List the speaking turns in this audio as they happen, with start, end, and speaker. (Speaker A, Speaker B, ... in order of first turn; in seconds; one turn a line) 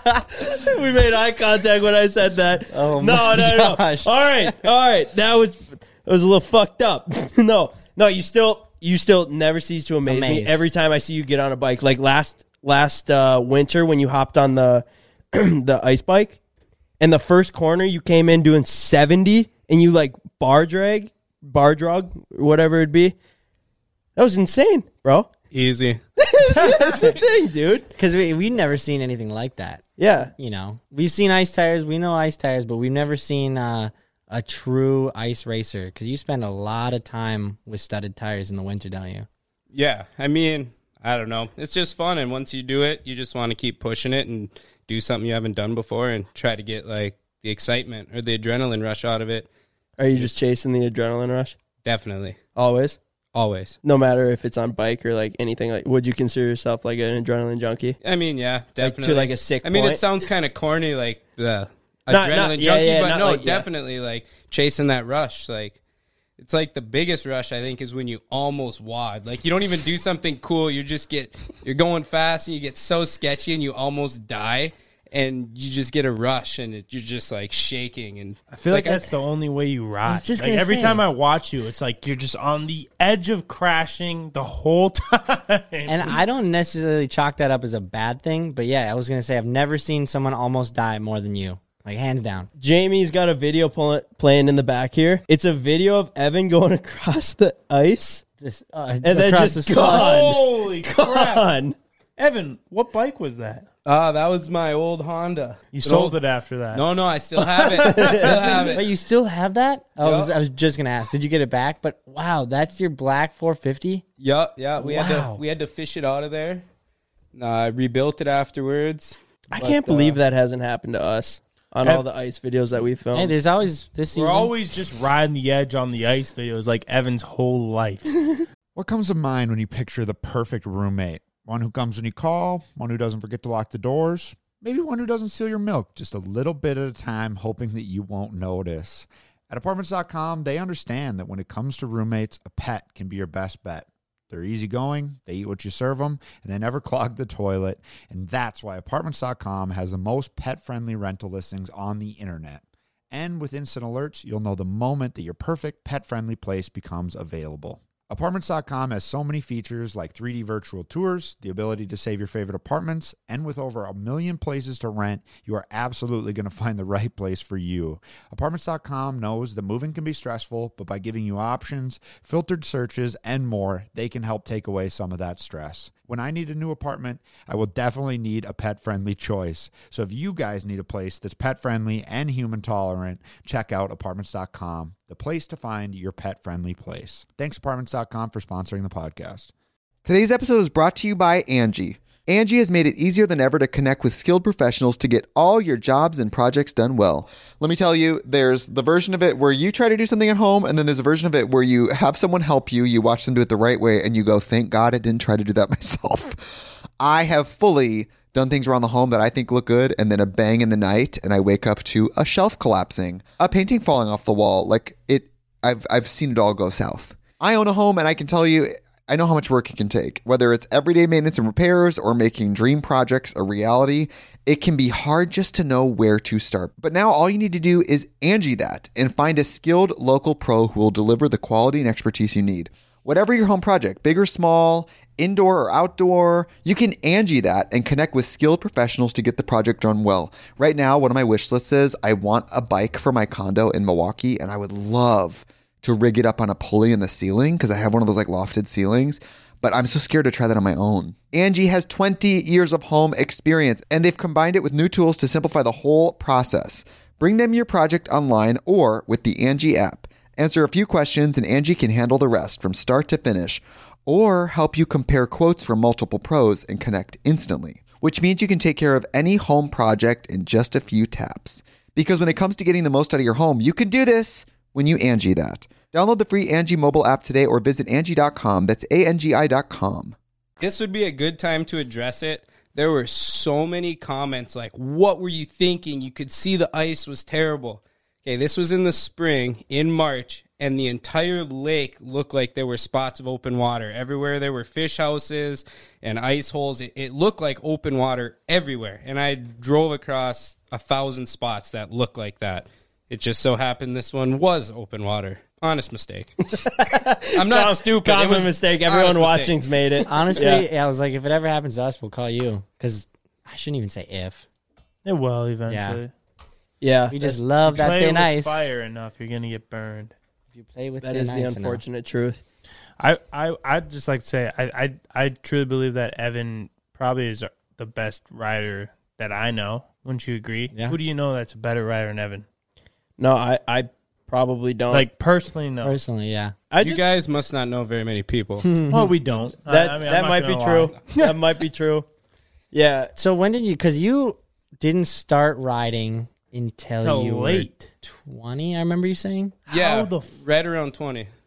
Speaker A: 0.4-16.4
Speaker A: 17.0-23.2
Speaker A: 24.2-25.3
Speaker B: 25.5-26.0
Speaker A: 26.2-27.9
Speaker C: 26.6-27.1
Speaker A: 30.0-30.3
Speaker D: 35.7-36.5
Speaker D: 37.2-38.1
Speaker B: 39.7-49.5
Speaker A: 50.0-51.6
Speaker B: 51.8-52.4
Speaker A: 52.6-53.0
Speaker B: 53.3-53.8
Speaker A: 53.8-58.0
Speaker B: 58.0-65.8
Speaker A: 58.8-60.0
Speaker A: 62.1-63.7
Speaker B: 66.4-79.1
Speaker C: 78.5-86.2
Speaker D: 80.2-80.9
Speaker D: 85.9-92.5
Speaker A: 92.6-98.2
Speaker A: 99.0-101.8
Speaker C: 99.8-101.5
Speaker C: 102.2-103.7
Speaker B: 103.8-106.2
Speaker C: 105.7-106.8
Speaker B: 106.7-108.9
Speaker C: 107.4-108.6
Speaker A: 107.9-108.6
Speaker D: 108.8-114.0
Speaker B: 110.0-110.3
Speaker B: 114.2-116.7
Speaker D: 114.8-115.4
Speaker B: 117.3-120.2
Speaker A: 119.5-123.4
Speaker D: 123.2-124.5
Speaker C: 124.1-128.1
Speaker E: 128.8-189.5
Speaker F: 190.1-206.4
Speaker F: 207.0-280.2
Speaker B: 280.6-306.4
Speaker A: 306.6-310.7
Speaker B: 307.4-309.6
Speaker D: 310.1-314.4
Speaker C: 315.1-316.1
Speaker A: 316.8-317.4
Speaker D: 317.1-318.6
Speaker C: 317.6-320.1
Speaker D: 320.7-321.8
Speaker A: 321.0-322.4
Speaker C: 323.0-332.5
Speaker A: 333.2-335.1
Speaker C: 334.9-336.0
Speaker D: 335.8-336.5
Speaker A: 336.7-337.0
Speaker B: 336.8-338.7
Speaker A: 338.6-339.1
Speaker C: 338.9-341.4
Speaker A: 339.7-342.1
Speaker A: 342.7-343.1
Speaker D: 343.2-349.6
Speaker C: 347.0-347.9
Speaker C: 349.7-350.3
Speaker B: 349.7-351.3